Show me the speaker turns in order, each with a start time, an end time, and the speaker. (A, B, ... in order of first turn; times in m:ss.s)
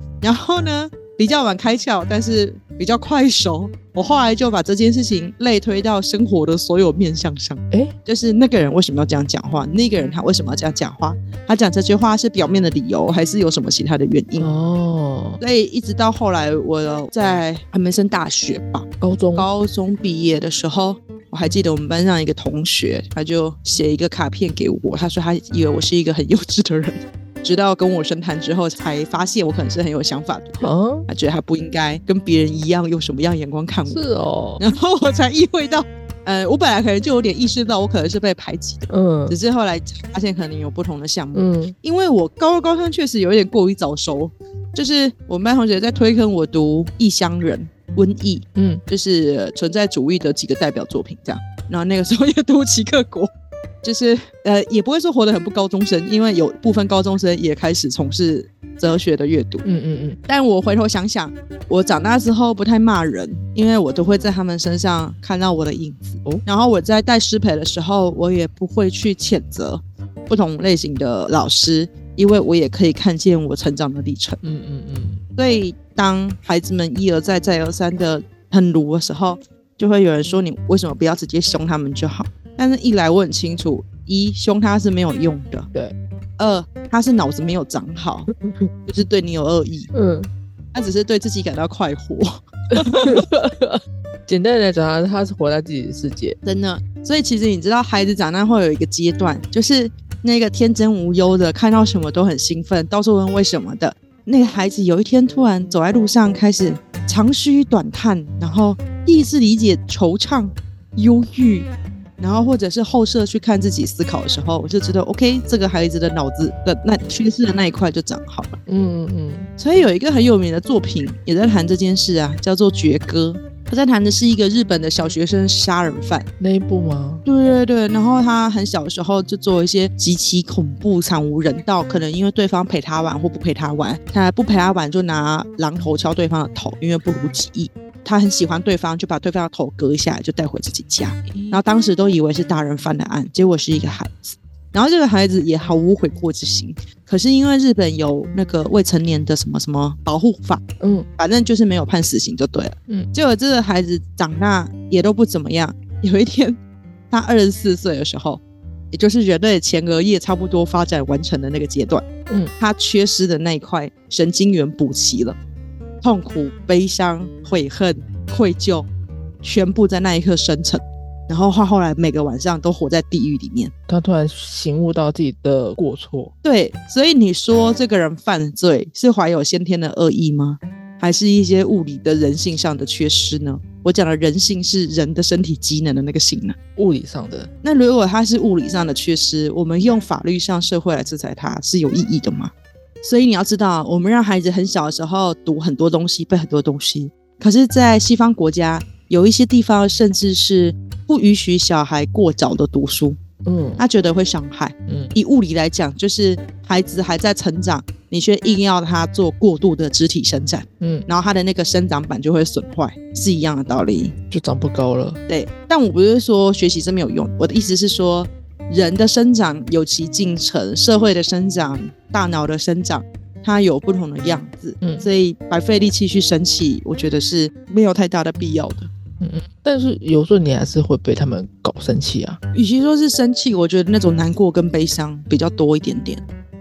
0:00.2-0:14.5 A
0:14.4-0:15.4 B
0:15.4-0:34.0 A
0:19.0-0:19.5 B
0:30.6-0:31.1 B
0:33.9-0:34.6 B
0:34.6-0:53.3 A
0:38.9-0:39.4 B
0:41.3-0:41.8 B
0:48.6-0:48.8 B
0:53.8-0:59.6 A
0:59.6-1:00.2 B
1:00.3-1:14.4 A
1:14.4-1:15.2 B
1:15.4-1:25.7 A
1:26.4-1:28.3 A
1:28.4-1:28.7 B
1:28.9-1:29.9 A
1:29.9-1:30.3 B
1:30.7-1:33.3 A
1:32.7-1:36.4 B
1:36.4-1:51.7 A
1:52.2-1:58.6 A
1:58.7-1:59.5 B
1:59.6-2:06.3 A
2:06.4-2:07.2 B
2:07.2-2:30.6 A
2:21.3-2:21.6 B
2:30.8-2:31.1 B
2:31.2-2:36.6 A
2:37.1-2:38.4 A
2:38.9-2:42.1 A
2:42.6-2:45.4 A
2:46.0-2:48.9 A
2:49.4-2:53.7 A
2:53.9-2:56.3 B
2:56.4-3:06.6 A
3:06.8-3:07.5 B
3:07.6-3:12.5 A
3:13.0-3:23.2 A
3:23.4-3:23.8 B
3:23.8-3:34.1 A
3:24.9-3:25.1 B
3:30.8-3:31.1 B
3:34.3-3:35.2 B
3:35.3-3:48.9 A
3:44.8-3:45.1 B
3:49.2-3:52.4 B
3:52.5-3:56.2 A